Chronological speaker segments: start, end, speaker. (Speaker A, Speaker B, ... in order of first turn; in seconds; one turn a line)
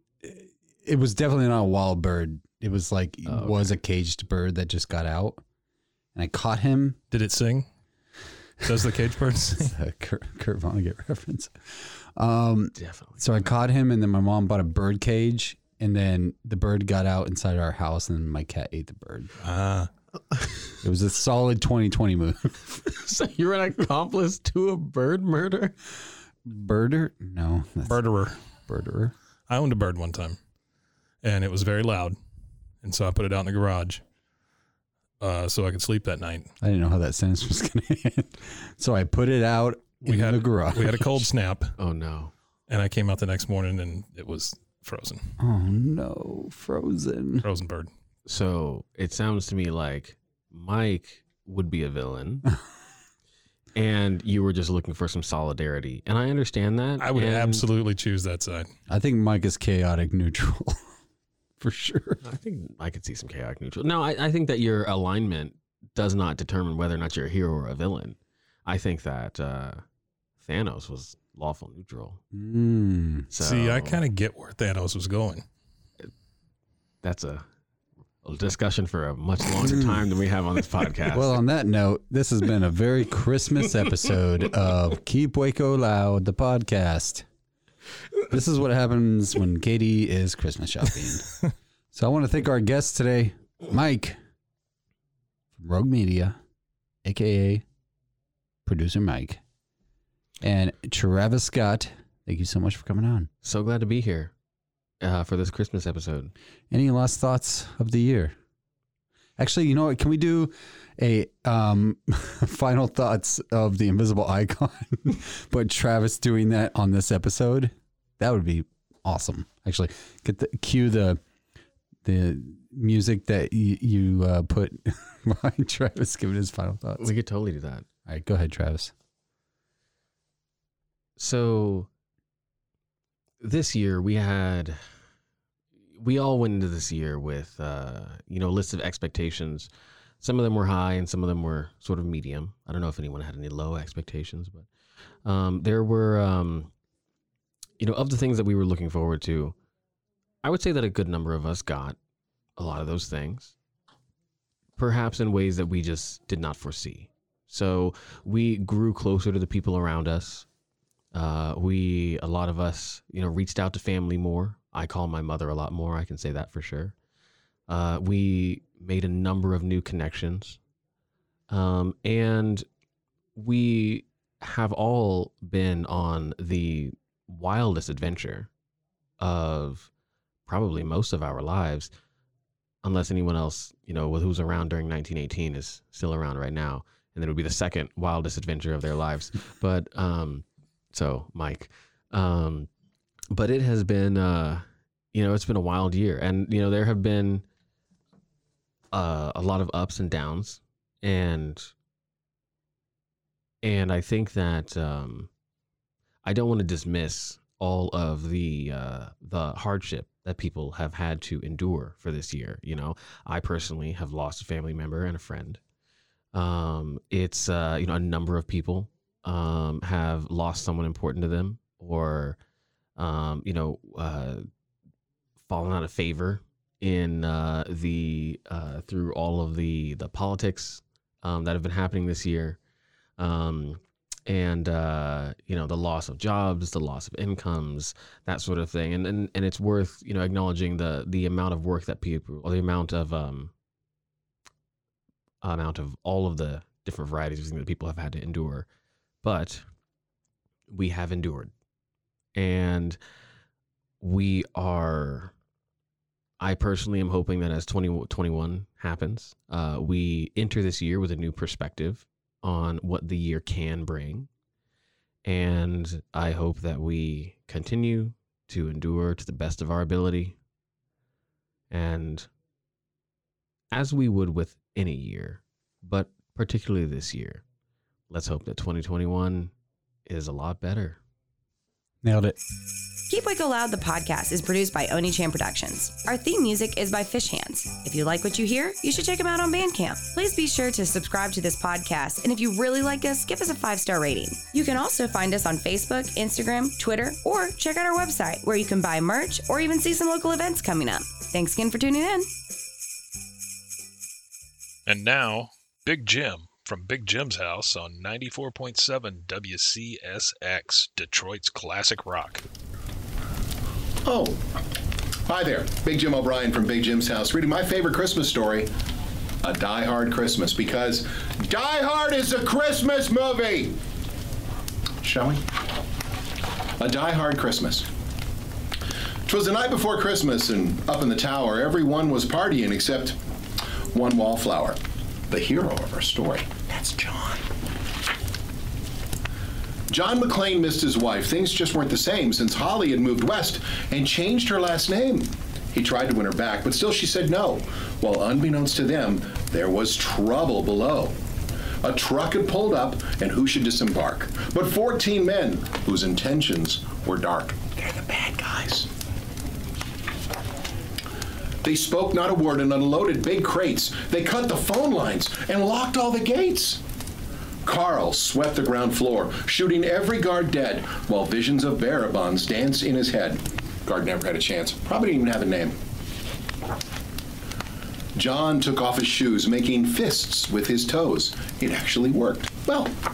Speaker A: 0.2-5.4
Speaker B: 3.2-3.7
Speaker A: 6.1-7.0
Speaker C: 7.1-7.7
Speaker C: 8.6-9.7
Speaker A: 9.6-19.3
Speaker B: 12.8-13.5
Speaker C: 19.4-19.9
Speaker A: 20.8-22.7
Speaker B: 22.9-25.7
Speaker A: 26.4-29.1
Speaker C: 27.9-28.4
Speaker C: 29.5-30.4
Speaker C: 31.2-32.1
Speaker C: 32.8-34.0
Speaker C: 35.2-36.5
Speaker A: 36.6-41.2
Speaker C: 40.0-41.7
Speaker B: 41.8-42.3
Speaker C: 42.7-45.3
Speaker A: 45.4-47.5
Speaker C: 47.4-47.9
Speaker B: 48.2-52.4
Speaker B: 53.7-57.6
Speaker C: 57.0-58.7
Speaker A: 58.9-60.8
Speaker A: 61.6-62.2
Speaker B: 62.2-69.8
Speaker B: 70.4-72.2
Speaker A: 72.3-73.3
Speaker B: 73.3-74.0
Speaker C: 73.4-75.4
Speaker B: 77.0-77.5
Speaker B: 78.2-81.4
Speaker A: 79.6-80.0
Speaker A: 81.1-87.2
Speaker A: 88.3-91.3
Speaker A: 91.9-94.2
Speaker A: 95.5-96.4
Speaker A: 97.0-97.6
Speaker A: 98.6-99.4
Speaker A: 100.4-103.3
Speaker B: 103.4-104.3
Speaker B: 105.0-106.3
Speaker A: 106.7-108.3
Speaker A: 109.4-121.2
Speaker A: 122.0-127.1
Speaker B: 127.0-127.8
Speaker A: 128.1-128.9
Speaker B: 131.2-131.9
Speaker B: 133.4-134.8
Speaker B: 135.9-139.7
Speaker B: 140.2-144.7
Speaker B: 145.2-146.7
Speaker B: 147.8-149.5
Speaker B: 150.4-152.0
Speaker B: 152.6-153.5
Speaker B: 154.8-160.5
Speaker B: 161.1-166.9
Speaker B: 167.7-170.6
Speaker B: 171.5-172.7
Speaker B: 173.3-178.5
Speaker B: 179.2-179.9
Speaker B: 180.4-181.9
Speaker B: 182.8-192.7
Speaker B: 193.3-197.4
Speaker B: 198.9-201.7
Speaker B: 203.6-205.3
Speaker B: 206.2-215.6
Speaker B: 216.3-222.4
Speaker B: 223.0-224.5
Speaker B: 225.4-232.6
Speaker B: 233.2-243.5
Speaker B: 245.4-248.7
Speaker B: 249.2-249.6
Speaker B: 250.7-251.5
Speaker B: 252.3-253.0
Speaker B: 254.0-255.3
Speaker B: 256.4-264.3
Speaker B: 265.2-270.4
Speaker B: 271.7-272.3
Speaker B: 273.7-277.4
Speaker B: 278.1-279.5
Speaker B: 280.1-281.0
Speaker A: 282.0-282.4
Speaker D: 283.1-302.3
Speaker E: 304.9-312.4
Speaker F: 314.0-314.4
Speaker F: 315.3-318.7
Speaker F: 319.4-323.8
Speaker F: 325.0-325.5
Speaker F: 326.8-327.9
Speaker F: 329.2-333.2
Speaker F: 333.9-334.8
Speaker F: 335.3-337.5
Speaker F: 339.9-351.1
Speaker F: 351.8-358.9
Speaker F: 361.6-366.8
Speaker F: 367.6-375.8
Speaker F: 378.1-382.9